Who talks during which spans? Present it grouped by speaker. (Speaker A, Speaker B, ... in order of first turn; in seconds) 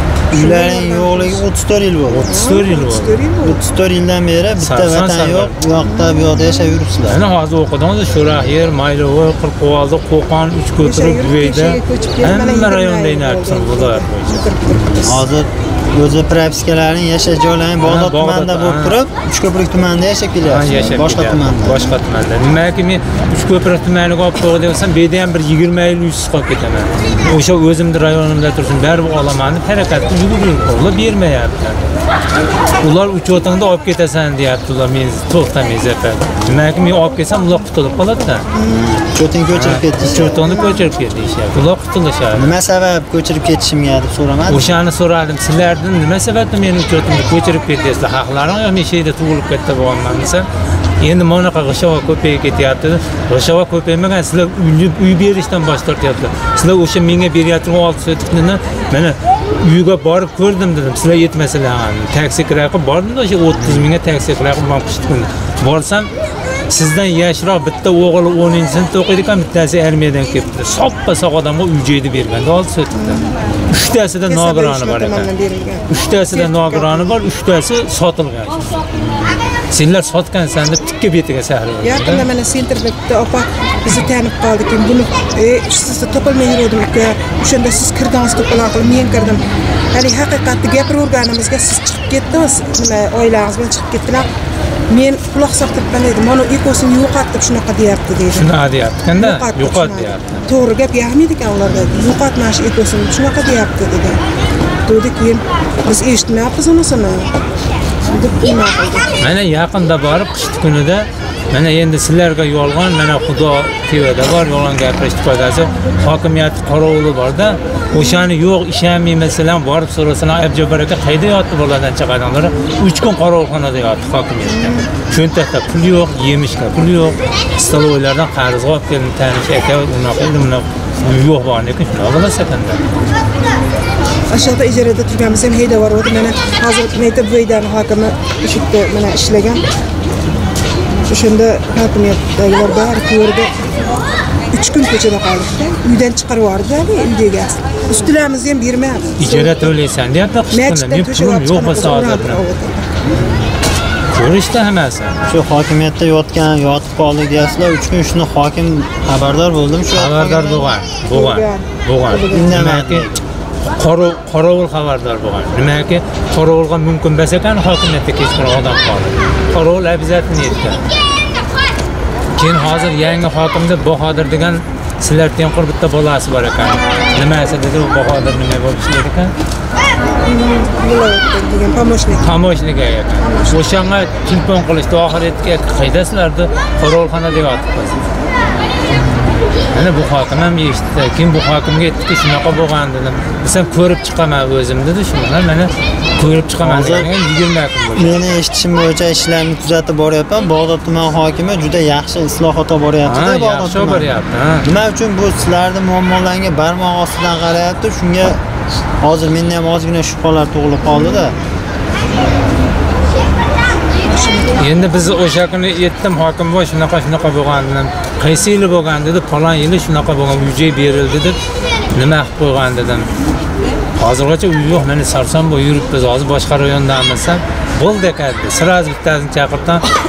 Speaker A: 0.3-2.4, 3.4-7.2, 14.8-21.9, 38.5-40.6, 42.3-44.7, 63.6-63.9, 79.0-79.3, 153.1-153.5, 155.3-160.8, 162.3-163.3, 188.9-189.5, 196.6-197.1, 198.0-204.1, 204.6-208.4, 209.0-211.4
Speaker B: 0.3-1.4, 2.2-3.6, 10.8-15.2, 40.5-40.9, 72.9-73.3, 74.3-77.1, 81.8-94.3, 94.9-98.5, 99.2-104.2, 104.9-107.3, 108.0-109.2, 117.9-118.3, 124.5-124.9, 134.3-139.7, 141.1-143.5, 144.5-149.7, 150.5-152.9, 161.1-162.6, 180.2-182.3, 183.2-183.7, 210.9-211.2, 214.1-214.6
Speaker C: 2.1-3.2, 4.6-5.5, 7.0-14.5, 17.8-19.0, 20.4-31.8, 32.8-38.5, 39.5-42.5, 44.5-50.5, 51.0-66.1, 66.7-75.3, 75.9-78.7, 79.7-82.3, 98.3-100.4, 109.2-132.8, 149.2-152.4, 154.1-155.2, 159.9-163.1, 163.7-170.8, 172.4-179.3, 182.2-188.1, 189.7-198.2, 203.1-204.7, 214.6-221.4, 221.9-223.1, 224.0-229.8